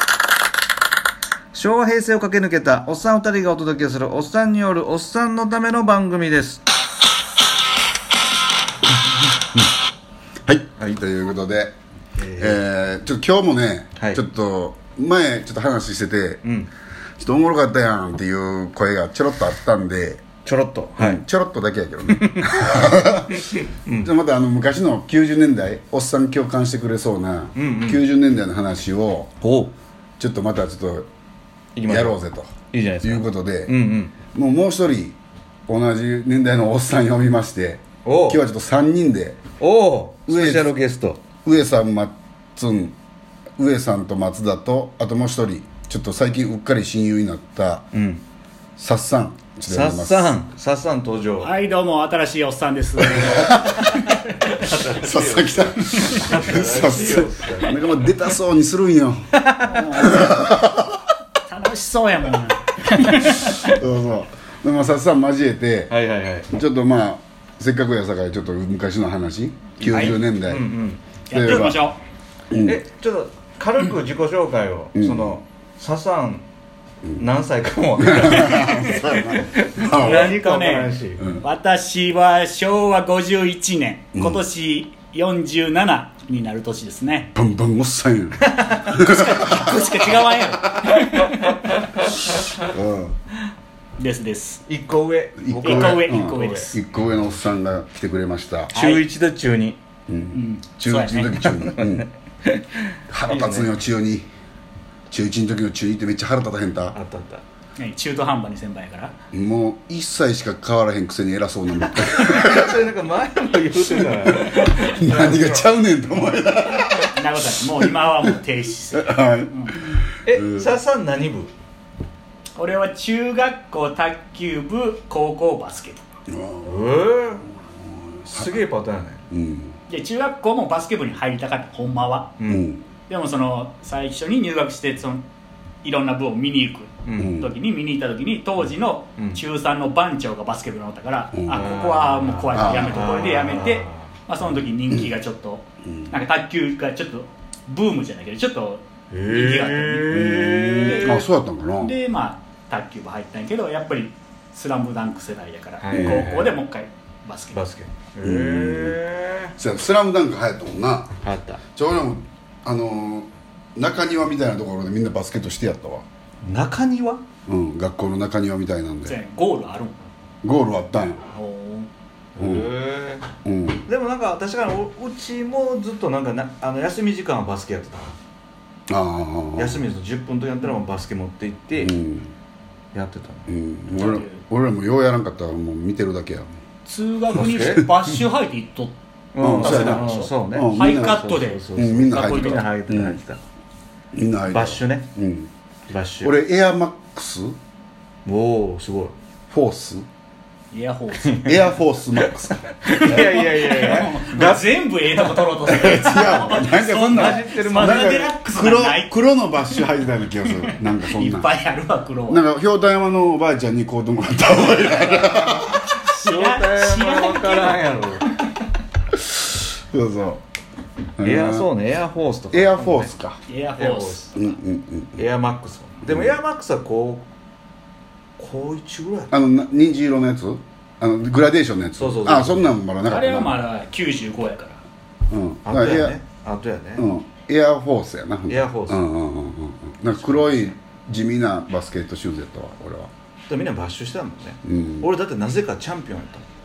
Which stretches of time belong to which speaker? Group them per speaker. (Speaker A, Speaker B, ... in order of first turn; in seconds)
Speaker A: 1.5-6.6, 12.2-12.6, 16.4-16.7, 20.4-21.2, 22.1-22.5, 23.3-24.1, 27.6-28.0, 29.4-29.7, 31.8-32.2, 32.7-34.1, 38.0-38.4, 39.6-41.2, 47.9-48.2, 49.7-51.5, 54.4-57.8, 59.4-59.7, 65.9-66.5, 70.4-71.5, 72.6-76.5, 77.2-81.3, 88.5-88.9, 91.1-92.5, 94.7-96.7, 98.7-99.8, 101.4-103.7, 106.9-107.4, 112.0-115.7, 120.2-121.5, 126.6-127.5, 128.3-129.2, 132.4-132.7, 137.1-137.4, 139.2-139.4, 141.5-144.1, 149.1-151.1, 155.8-156.6, 157.5-159.5, 161.2-161.6, 166.4-167.2, 172.4-173.2, 173.9-178.2, 179.6-181.9, 182.9-183.5, 187.3-187.9, 189.3-193.4, 194.5-195.1, 195.9-196.3, 198.2-199.2, 202.8-205.4, 206.9-208.3, 215.0-218.3, 221.2-223.1, 223.8-224.3, 225.2-227.3, 228.4-229.3, 232.0-232.8, 235.7-237.1, 238.5-239.1, 240.1-240.7, 243.5-246.5
Speaker B: 10.5-11.8, 12.4-16.4, 17.2-20.2, 21.0-29.3, 30.2-31.1, 31.9-33.7, 34.3-35.2, 35.7-39.4, 40.3-40.8, 41.4-43.0, 43.6-47.9, 48.8-50.4, 53.1-53.8, 54.7-59.2, 59.9-61.0, 63.2-65.9, 66.5-70.7, 71.3-71.8, 72.5-72.8, 75.0-75.4, 78.0-80.4, 84.2-84.5, 87.3-90.2, 92.5-93.2, 95.4-98.8, 100.1-102.1, 103.1-104.3, 105.1-107.0, 109.3-112.8, 113.9-117.2, 117.8-118.3, 118.9-120.7, 126.3-127.0, 127.8-128.6, 129.3-129.8, 132.5-132.9, 137.2-137.5, 141.3-141.9, 142.5-143.5, 145.9-146.2, 150.1-152.0, 155.9-156.3, 158.2-159.0, 159.6-161.2, 161.8-166.1, 167.5-169.2, 170.4-171.2, 172.4-172.7, 173.4-173.9, 178.9-179.8, 181.8-182.3, 183.5-186.5, 187.3-187.8, 189.4-193.2, 194.1-195.5, 196.2-197.6, 199.5-200.1, 201.4-203.4, 205.7-211.5, 212.3-215.9, 219.3-220.4, 221.2-221.7, 222.5-223.4, 224.3-225.2, 226.1-226.4, 229.3-233.6, 235.3-236.2, 237.0-243.1, 244.7-245.1
Speaker C: 51.4-54.5, 59.6-60.5, 61.5-63.8, 69.8-70.2, 71.3-72.0, 79.9-87.3, 88.9-91.3, 94.0-94.6, 95.6-96.8, 98.8-99.0, 100.3-101.4, 107.8-109.1, 117.1-119.8, 122.6-126.0, 129.9-132.3, 133.1-135.2, 135.8-150.1, 150.8-151.3, 151.8-157.6, 169.1-170.1, 171.3-171.9, 183.9-184.4, 186.9-188.9, 189.5-192.7, 200.7-201.7, 202.9-209.1, 210.6-212.4, 216.0-218.2, 223.5-224.6, 233.1-234.8